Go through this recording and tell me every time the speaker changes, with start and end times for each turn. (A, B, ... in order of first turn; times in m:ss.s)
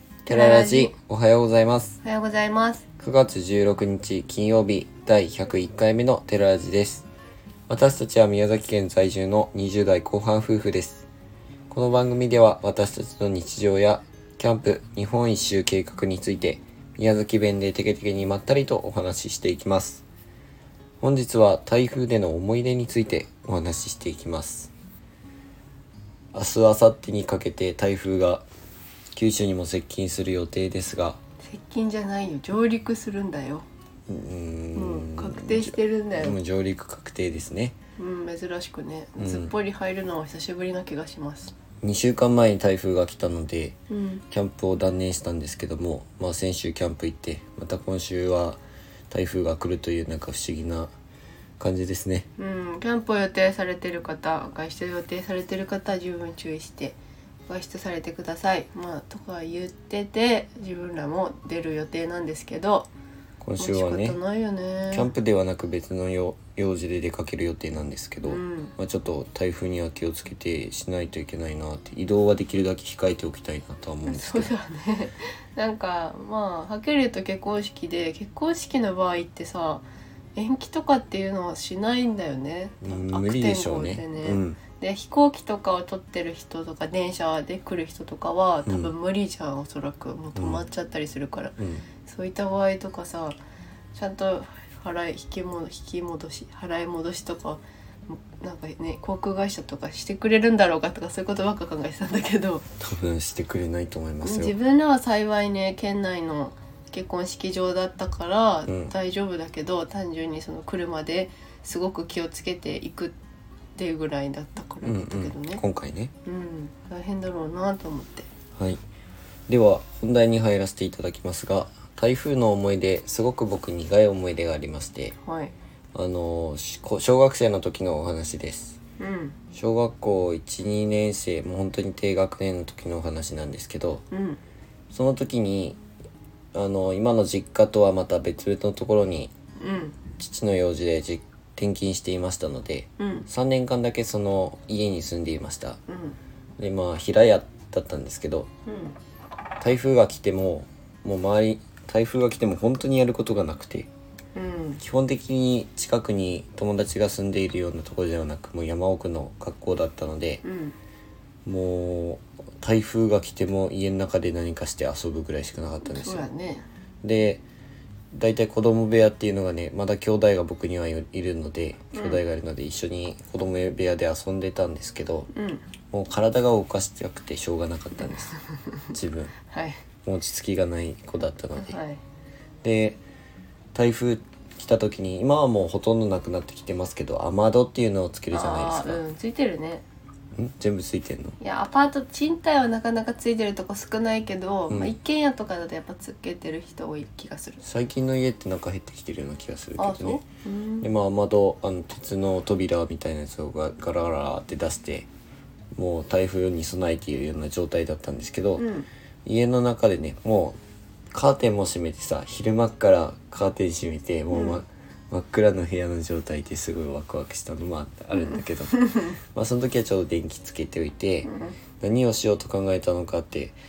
0:00.2-0:02.0 A
0:00.3-0:00.9 B
0:02.0-0:02.8 B
0:03.0-0:07.0 A
0:07.7-0:11.0 A
0:11.7-0:20.0 A
0:21.0-0:24.7 A
0:26.3-0:28.4 A
0:29.1-0:31.2 A
0:31.4-0:33.6 B
0:34.1-0:37.8 A
0:34.7-0:36.4 B
0:38.0-0:41.5 B
0:39.2-0:39.5 A
0:41.8-0:43.8 A
0:43.9-0:44.2 B
0:44.3-0:50.9 A
0:51.6-0:52.3 A
0:52.4-1:02.9 B
1:03.4-1:04.2 A
1:03.6-1:05.1 B
1:04.9-1:14.5 A
1:08.2-1:08.7 B
1:14.0-1:33.4 B
1:22.8-1:24.6 A
1:28.6-1:28.9 A
1:30.4-1:30.6 A
1:31.6-1:31.8 A
1:33.9-1:42.6 B
1:42.8-1:44.5 A
1:44.2-1:53.2 B
1:48.7-1:48.9 A
1:53.7-1:55.6 B
1:54.8-1:56.1 A
1:56.2-1:58.3 B
1:59.5-2:05.1 A
2:05.2-2:05.5 B
2:05.9-2:08.8 A
2:09.0-2:09.4 B
2:09.5-2:14.0 A
2:14.1-2:14.4 B
2:14.9-2:15.8 A
2:16.5-2:19.3 A
2:19.6-2:20.0 B
2:20.2-2:25.8 A
2:23.0-2:23.3 B
2:25.9-2:26.2 B
2:26.6-2:28.5 A
2:28.6-2:29.0 B
2:29.6-2:33.9 A
2:34.3-2:34.8 B
2:34.8-2:40.4 A
2:40.4-2:40.7 B
2:41.4-2:46.2 A
2:45.9-2:46.6 B
2:47.0-2:47.4 A
2:48.1-2:55.3 A
2:51.9-2:52.2 B
2:55.3-2:55.6 B
2:55.9-2:58.3 A
2:58.9-2:59.3 A
2:59.5-2:59.8 B
3:00.0-3:01.8 A
3:01.6-3:02.0 B
3:02.6-3:03.0 A
3:03.7-3:09.0 A
3:08.3-3:09.8 B
3:10.3-3:11.4 A
3:11.4-3:17.6 B
3:17.6-3:20.2 A
3:19.8-3:20.9 B
3:20.8-3:25.1 A
3:25.7-3:28.6 A
3:28.6-3:28.9 B
3:29.2-3:30.6 A
3:31.1-3:38.7 A
3:34.3-3:34.6 B
3:38.3-3:39.1 B
3:39.3-3:41.3 A
3:41.2-3:41.6 B
3:41.8-3:43.6 A